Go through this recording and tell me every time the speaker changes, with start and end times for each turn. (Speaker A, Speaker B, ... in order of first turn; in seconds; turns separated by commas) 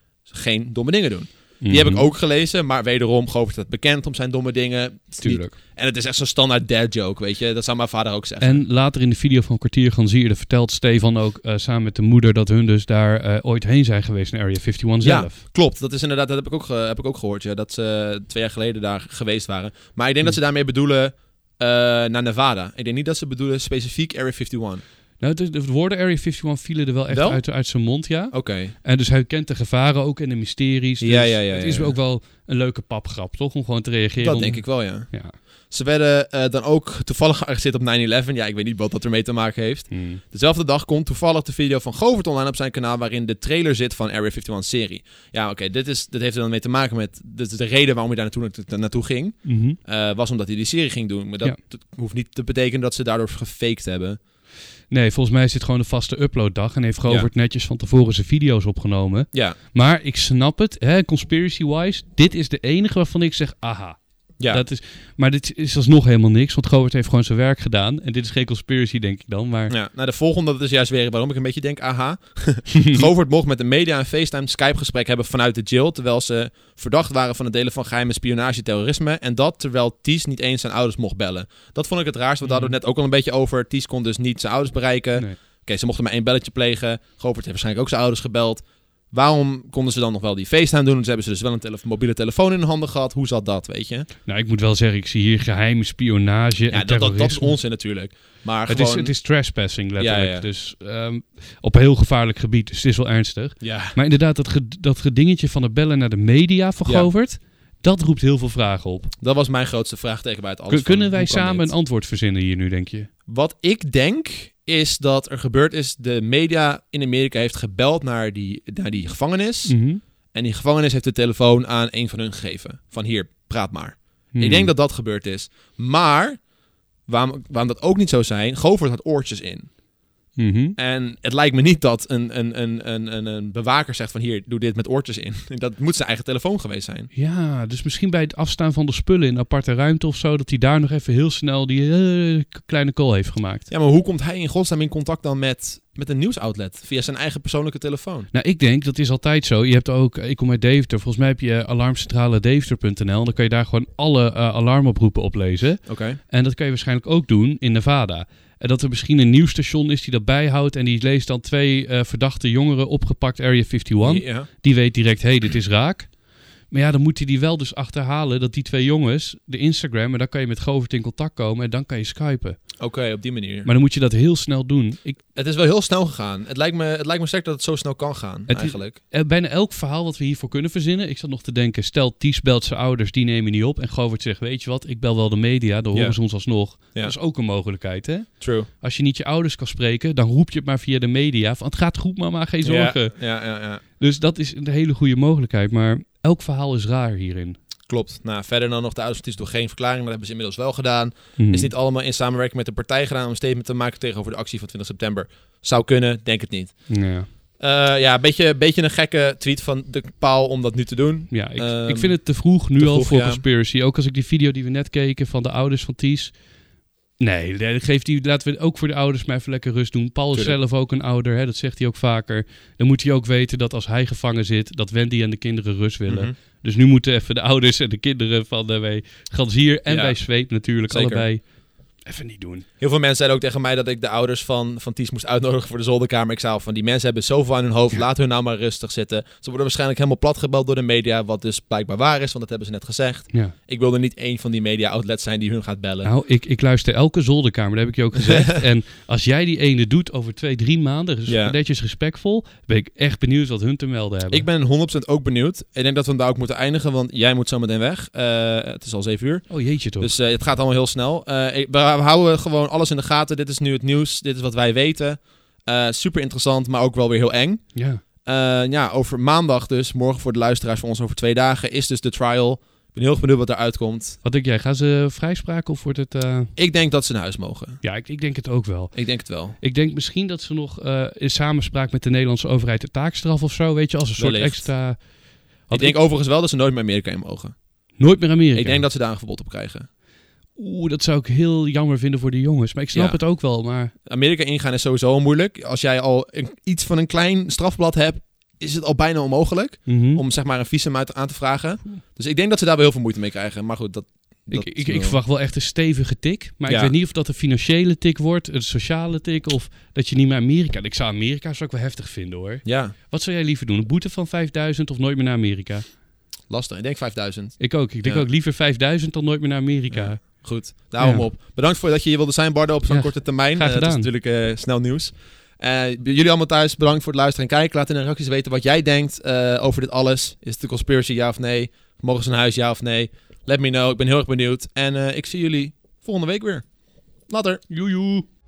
Speaker A: 0.3-8.6, Speaker B: 1.6-2.1, Speaker B: 5.2-5.6, Speaker B: 8.4-15.4, Speaker A: 15.0-24.8, Speaker B: 25.2-35.4, Speaker A: 27.1-27.4, Speaker A: 28.3-28.7, Speaker A: 31.0-32.0, Speaker A: 34.2-35.1, Speaker A: 35.7-54.2, Speaker B: 39.9-40.2, Speaker B: 49.4-49.8, Speaker B: 54.9-69.7, Speaker A: 59.3-59.6, Speaker A: 64.4-64.6, Speaker A: 69.7-94.1, Speaker B: 82.4-82.8, Speaker B: 94.3-97.5, Speaker A: 96.7-99.2, Speaker B: 98.7-109.1, Speaker A: 100.0-100.5, Speaker A: 103.6-104.0, Speaker A: 109.2-111.7, Speaker B: 110.7-113.1, Speaker A: 113.3-119.8, Speaker B: 119.7-120.0, Speaker A: 120.3-126.4, Speaker B: 124.3-124.7, Speaker A: 127.1-129.7, Speaker B: 130.4-130.8, Speaker A: 130.8-137.1, Speaker B: 137.1-143.7, Speaker A: 143.7-148.3, Speaker B: 148.3-166.1, Speaker A: 155.9-156.2, Speaker A: 164.0-164.5, Speaker B: 166.7-172.6, Speaker A: 172.8-173.7, Speaker B: 173.6-175.2, Speaker A: 175.3-179.0, Speaker B: 178.5-193.2, Speaker A: 185.9-186.2, Speaker A: 188.4-188.7, Speaker A: 192.6-193.8, Speaker B: 194.0-197.6, Speaker A: 197.9-206.9, Speaker B: 201.4-201.7, Speaker B: 206.9-207.3, Speaker A: 207.6-212.2, Speaker B: 211.3-216.4, Speaker A: 212.8-213.4, Speaker B: 217.2-231.4, Speaker A: 226.1-226.3, Speaker A: 229.9-230.2, Speaker A: 230.9-231.3, Speaker B: 232.1-232.7, Speaker A: 232.8-246.1, Speaker B: 246.0-254.5, Speaker A: 251.3-251.6, Speaker A: 254.3-267.6, Speaker B: 259.5-260.1, Speaker B: 267.8-268.0, Speaker A: 268.2-274.2, Speaker B: 274.2-276.5, Speaker A: 276.6-277.8, Speaker B: 277.8-285.0, Speaker A: 278.9-279.6, Speaker A: 284.2-284.7, Speaker B: 285.7-286.0, Speaker A: 285.7-287.6, Speaker B: 288.0-288.9, Speaker A: 288.5-289.9, Speaker B: 290.6-293.9, Speaker A: 292.9-293.2, Speaker A: 294.1-305.2, Speaker B: 299.9-300.2, Speaker B: 304.5-315.9, Speaker A: 306.7-306.9, Speaker A: 312.6-312.9, Speaker A: 316.5-318.3, Speaker B: 317.6-320.4, Speaker A: 319.9-336.6, Speaker B: 321.0-321.3, Speaker B: 322.9-324.1, Speaker A: 337.3-337.6, Speaker B: 337.7-338.3